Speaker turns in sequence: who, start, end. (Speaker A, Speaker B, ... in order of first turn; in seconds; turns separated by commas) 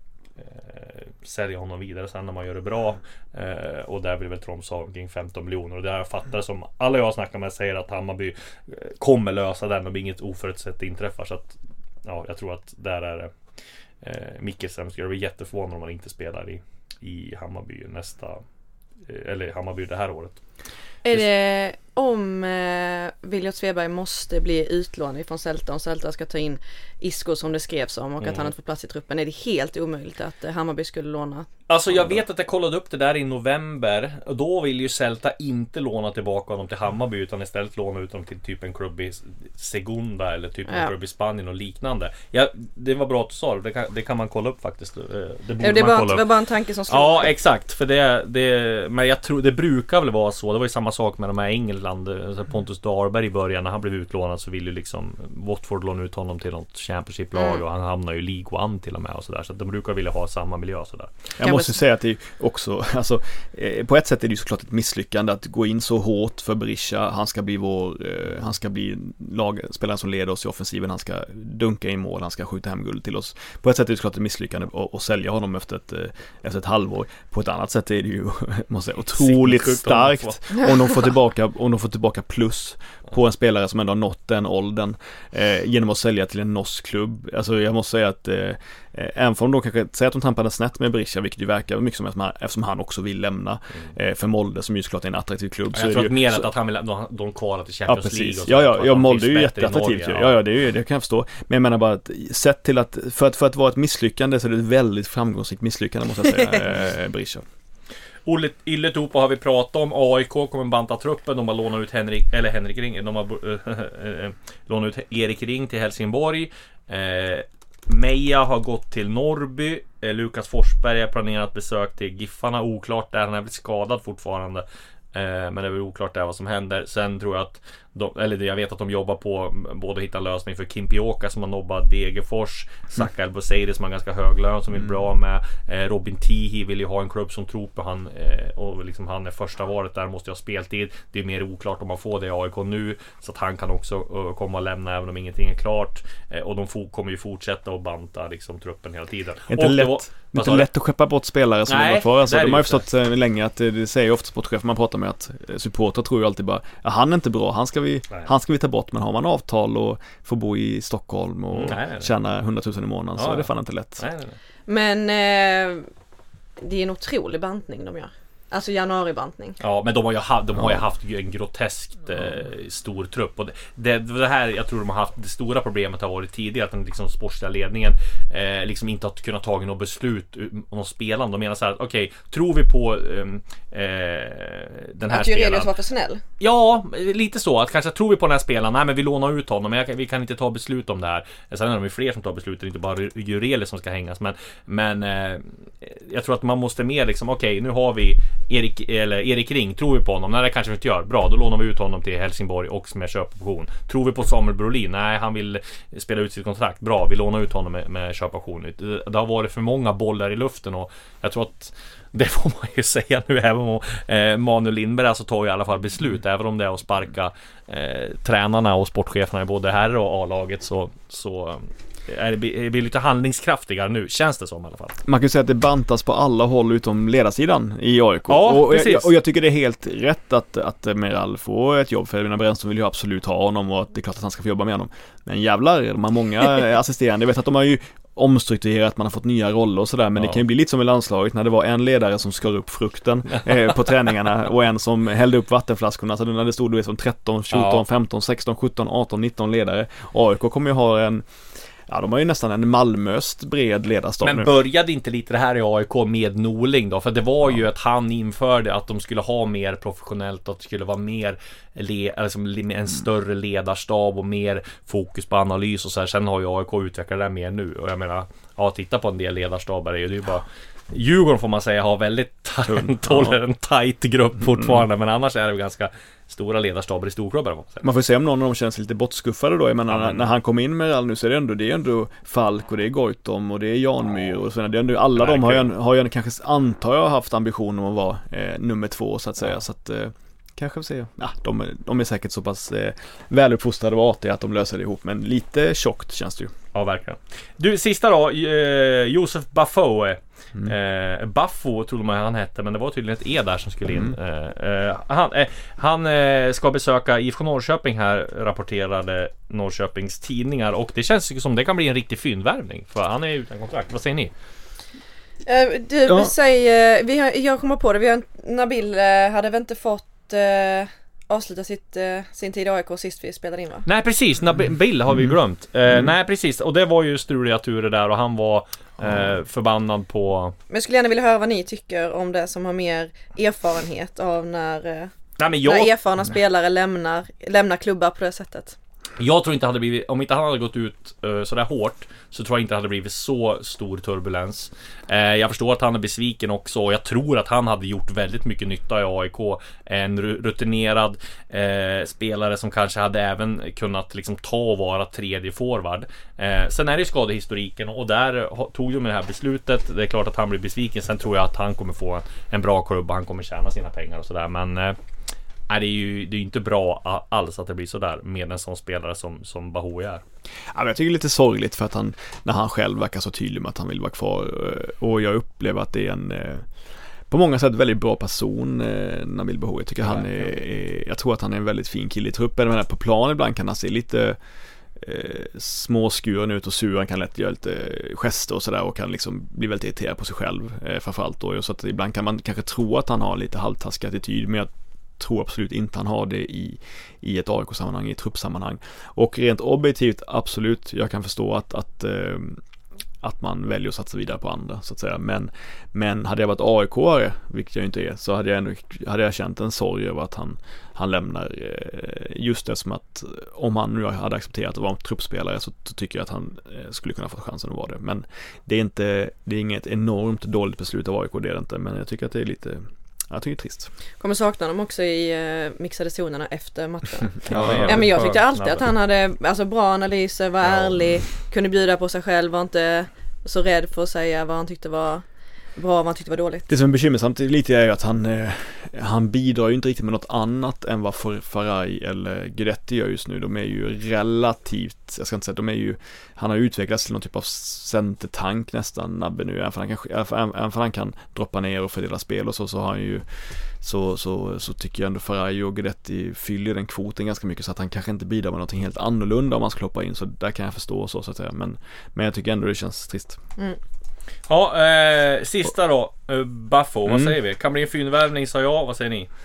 Speaker A: 0.4-13.3, Speaker A: 14.0-18.4, Speaker A: 19.1-20.4, Speaker B: 21.1-31.5, Speaker A: 28.2-28.5, Speaker A: 31.7-46.3, Speaker B: 45.6-47.3, Speaker A: 46.9-61.1, Speaker B: 57.4-57.6, Speaker C: 61.4-96.5, Speaker B: 61.4-61.7, Speaker A: 79.2-80.7, Speaker A: 95.7-100.4, Speaker C: 97.9-107.5, Speaker A: 108.3-150.7, Speaker C: 149.5-164.1, Speaker A: 151.7-152.8, Speaker A: 161.5-162.1, Speaker A: 163.2-164.4, Speaker B: 164.7-165.9, Speaker B: 166.6-169.6, Speaker A: 169.6-185.7, Speaker B: 185.1-186.2, Speaker A: 186.4-225.0, Speaker C: 225.1-251.3, Speaker A: 228.3-229.1, Speaker A: 247.5-247.8, Speaker C: 251.9-254.5, Speaker A: 254.2-277.9, Speaker C: 272.7-273.4, Speaker C: 274.5-274.8, Speaker C: 277.8-296.5, Speaker A: 279.9-280.3, Speaker A: 285.2-285.7, Speaker A: 296.7-314.3, Speaker C: 303.9-304.2, Speaker B: 315.5-323.9, Speaker C: 316.1-316.3, Speaker A: 323.9-330.6, Speaker B: 330.7-335.1, Speaker A: 335.4-335.9, Speaker B: 335.6-338.8, Speaker A: 339.2-365.0, Speaker A: 365.7-370.2, Speaker C: 370.7-376.6, Speaker C: 377.3-384.4, Speaker A: 380.0-380.4, Speaker C: 385.0-402.6, Speaker C: 403.2-423.9, Speaker B: 424.2-435.2, Speaker C: 427.5-428.2, Speaker A: 427.5-428.9, Speaker B: 435.8-436.7, Speaker C: 436.7-463.4, Speaker A: 464.5-469.3, Speaker C: 467.1-467.4